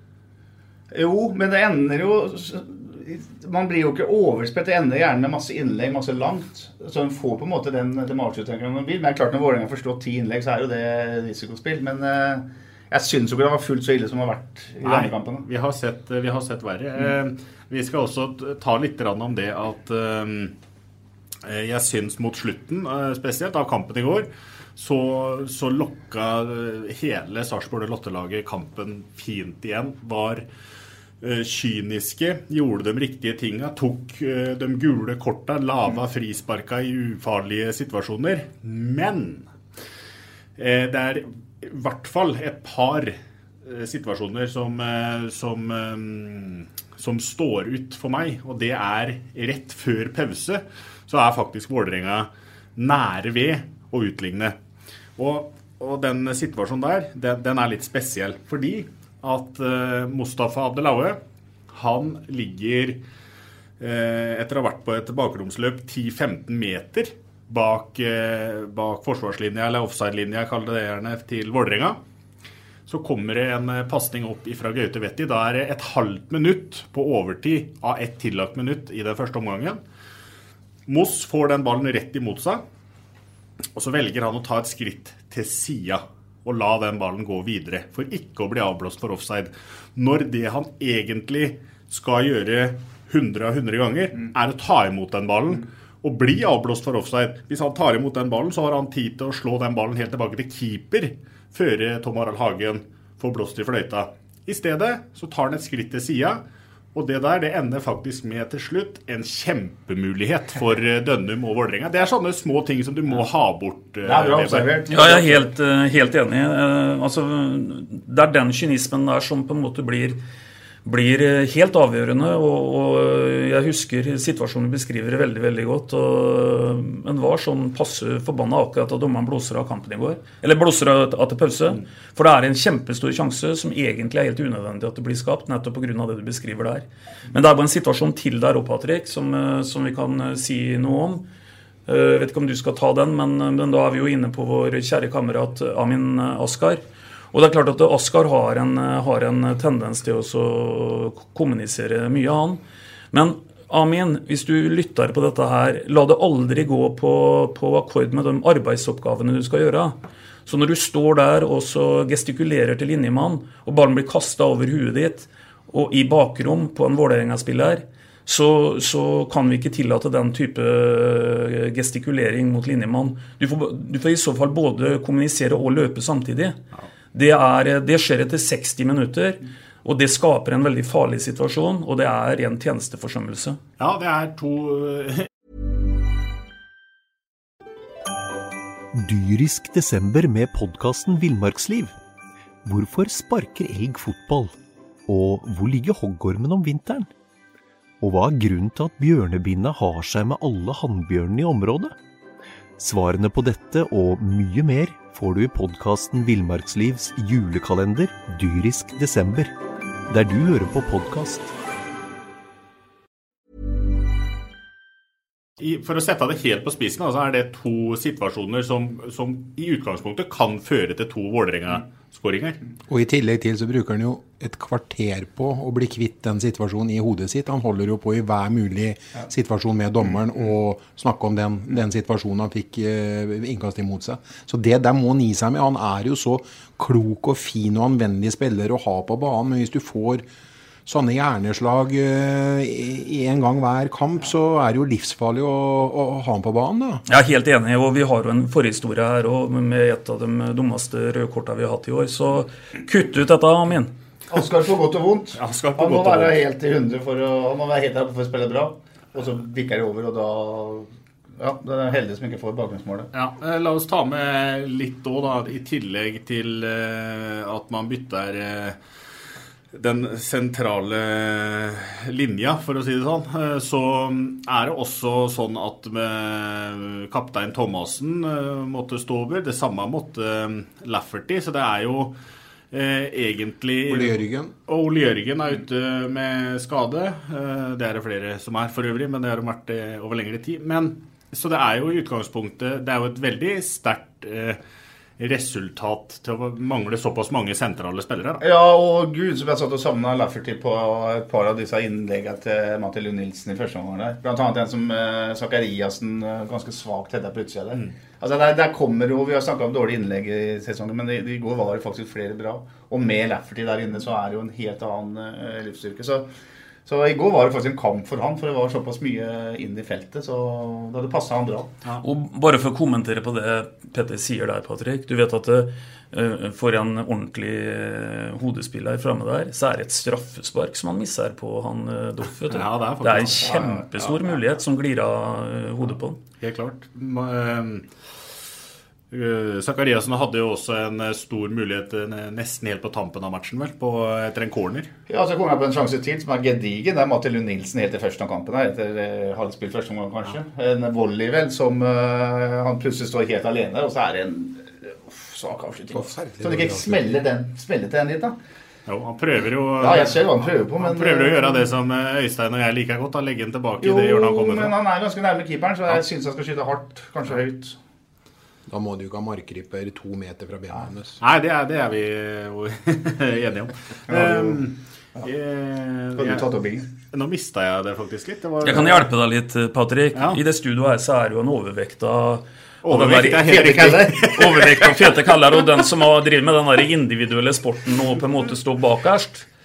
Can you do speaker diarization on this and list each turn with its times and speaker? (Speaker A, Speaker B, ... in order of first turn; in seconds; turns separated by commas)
Speaker A: 0.9-15.4, Speaker B: 14.8-20.5, Speaker B: 21.4-30.4, Speaker B: 31.2-39.5, Speaker B: 40.6-54.5, Speaker B: 55.2-61.2, Speaker B: 61.7-63.0, Speaker B: 63.8-72.0, Speaker B: 72.9-79.8, Speaker B: 80.9-82.6, Speaker B: 83.7-106.4, Speaker B: 106.9-114.7, Speaker A: 114.0-115.5, Speaker C: 114.9-120.2, Speaker C: 120.8-141.2, Speaker C: 141.8-146.8, Speaker C: 147.3-152.6, Speaker C: 153.1-176.6, Speaker C: 177.1-183.6, Speaker B: 183.8-185.3, Speaker D: 188.9-191.9, Speaker D: 192.6-194.5, Speaker D: 195.1-197.1, Speaker D: 198.0-201.9, Speaker D: 202.8-209.5, Speaker D: 210.1-211.5, Speaker B: 215.6-222.6, Speaker E: 222.9-240.2, Speaker E: 240.8-247.0, Speaker C: 247.1-253.9, Speaker A: 254.3-263.1, Speaker B: 255.4-256.4, Speaker B: 263.1-268.8, Speaker B: 269.7-282.1, Speaker B: 282.7-294.6, Speaker E: 283.9-284.5, Speaker B: 295.2-298.4, Speaker A: 298.4-316.3, Speaker A: 316.9-321.7, Speaker C: 322.0-336.2, Speaker B: 332.5-334.1, Speaker B: 336.4-337.9, Speaker B: 339.1-344.9, Speaker A: 345.1-358.4, Speaker E: 355.9-357.2, Speaker B: 358.9-364.7, Speaker A: 359.8-361.7, Speaker A: 363.8-367.8, Speaker E: 368.7-371.2, Speaker B: 371.2-379.1, Speaker A: 374.1-374.6, Speaker A: 376.1-376.9, Speaker C: 378.6-383.5, Speaker B: 382.8-385.3, Speaker A: 383.0-384.5, Speaker C: 384.3-389.4